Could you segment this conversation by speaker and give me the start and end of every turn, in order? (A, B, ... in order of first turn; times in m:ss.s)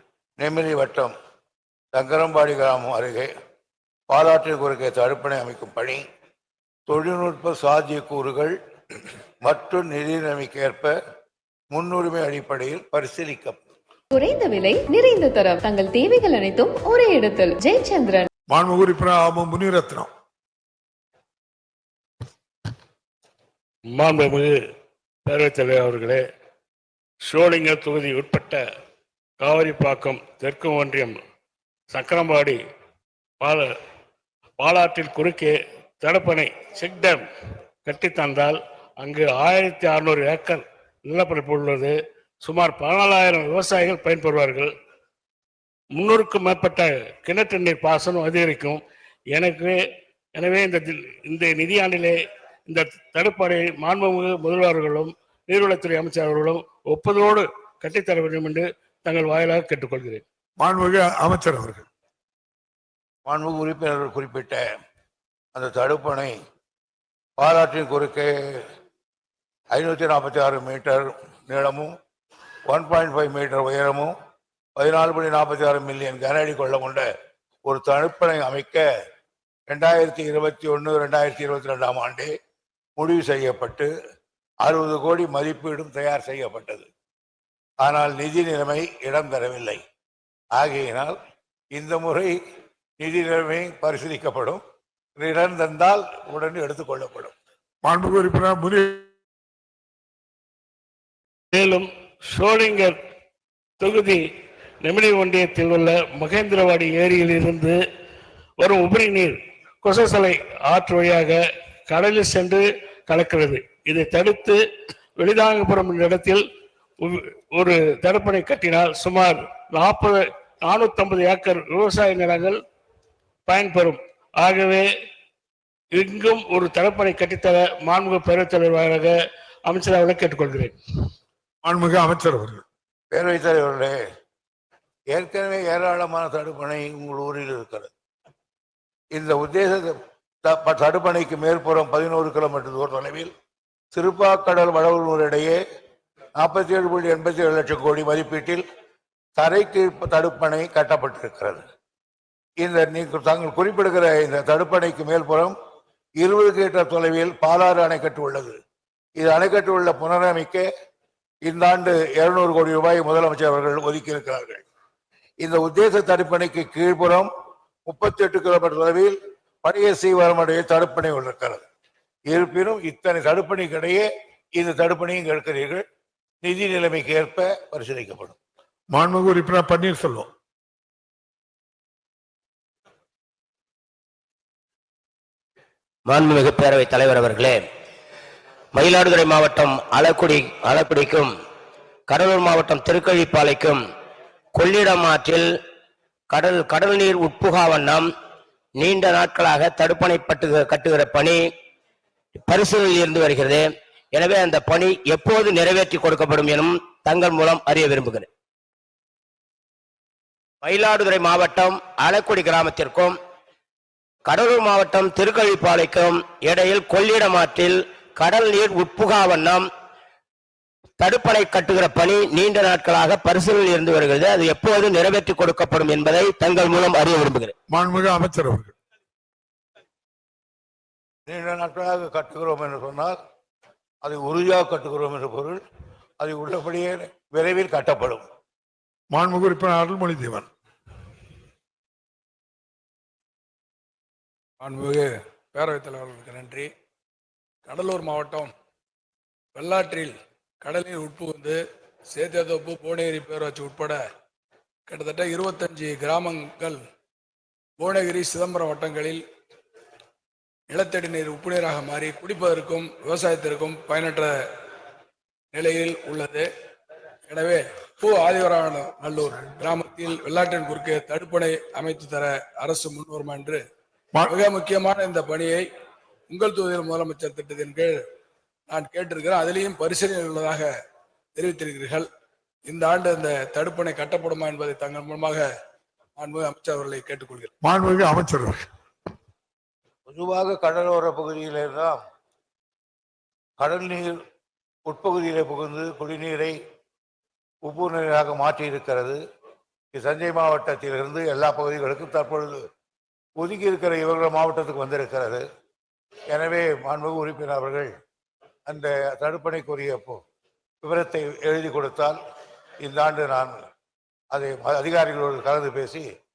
0:00.4-0:01.1 A
0:02.0-0:03.3 A
0:04.1-0:06.0 A
0:06.9-0:08.6 A
0:09.4-0:11.0 A
0:11.7-0:13.6 A
0:14.1-0:18.3 B
0:18.5-0:20.1 C
0:23.9-0:24.6 D
0:25.3-0:26.2 D
0:27.2-0:28.6 D
0:29.4-0:31.2 D
0:31.9-0:32.6 D
0:33.4-0:33.7 D
0:34.6-0:37.2 D
0:37.8-0:44.7 D
0:46.0-0:48.8 D
0:49.3-0:49.8 D
0:50.4-0:52.2 D
0:52.7-1:00.2 D
1:00.6-1:01.8 C
1:03.3-1:04.7 A
1:05.6-1:06.4 A
1:07.4-1:08.6 A
1:09.7-1:11.9 A
1:12.7-1:14.1 A
1:14.8-1:17.1 A
1:17.7-1:18.8 A
1:19.7-1:22.3 A
1:23.0-1:23.9 A
1:24.6-1:26.9 A
1:27.8-1:29.8 A
1:30.6-1:31.2 A
1:31.7-1:32.4 A
1:33.0-1:34.6 A
1:35.2-1:37.3 A
1:37.8-1:39.1 C
1:41.5-1:43.0 D
1:43.8-1:44.2 D
1:44.8-1:47.8 D
1:48.6-1:51.4 D
1:51.9-1:54.6 D
1:55.2-1:56.4 D
1:57.0-2:02.6 D
2:03.5-2:04.9 D
2:05.9-2:09.2 D
2:09.7-2:10.8 D
2:11.6-2:12.6 C
2:13.1-2:14.0 A
2:15.1-2:17.9 A
2:19.1-2:23.3 A
2:23.9-2:25.6 A
2:26.4-2:28.6 A
2:29.4-2:31.6 A
2:32.6-2:35.6 A
2:36.2-2:38.6 A
2:39.2-2:40.7 A
2:41.4-2:44.6 A
2:45.4-2:47.3 A
2:47.9-2:51.6 A
2:52.3-2:55.8 A
2:56.4-2:58.4 A
2:58.9-3:00.3 C
3:06.1-3:07.6 E
3:08.7-3:11.3 E
3:12.1-3:13.8 E
3:14.5-3:15.5 E
3:16.3-3:18.1 E
3:18.8-3:21.4 E
3:22.4-3:28.3 E
3:30.6-3:33.2 E
3:34.2-3:39.7 E
3:41.0-3:47.5 E
3:47.7-3:48.7 C
3:51.3-3:53.2 A
3:54.0-3:55.6 A
3:56.2-3:58.3 A
3:59.1-4:00.5 C
4:04.6-4:06.7 F
4:07.7-4:08.5 F
4:09.6-4:11.6 F
4:12.1-4:14.0 F
4:14.9-4:16.8 F
4:17.8-4:19.2 F
4:20.7-4:24.3 F
4:25.5-4:26.5 F
4:27.3-4:33.6 F
4:34.3-4:35.6 F
4:36.3-4:38.0 F
4:38.7-4:40.7 F
4:41.4-4:42.1 F
4:42.7-4:45.4 F
4:46.2-4:47.5 F
4:47.6-4:48.6 C
4:50.1-4:52.0 A
4:53.6-4:54.2 A
4:54.9-4:56.6 A
4:57.6-4:59.2 A
4:59.9-5:02.7 A
5:03.4-5:05.4 A
5:06.3-5:07.9 A
5:08.7-5:10.2 A
5:10.8-5:12.2 A
5:12.8-5:13.6 A
5:14.3-5:16.0 A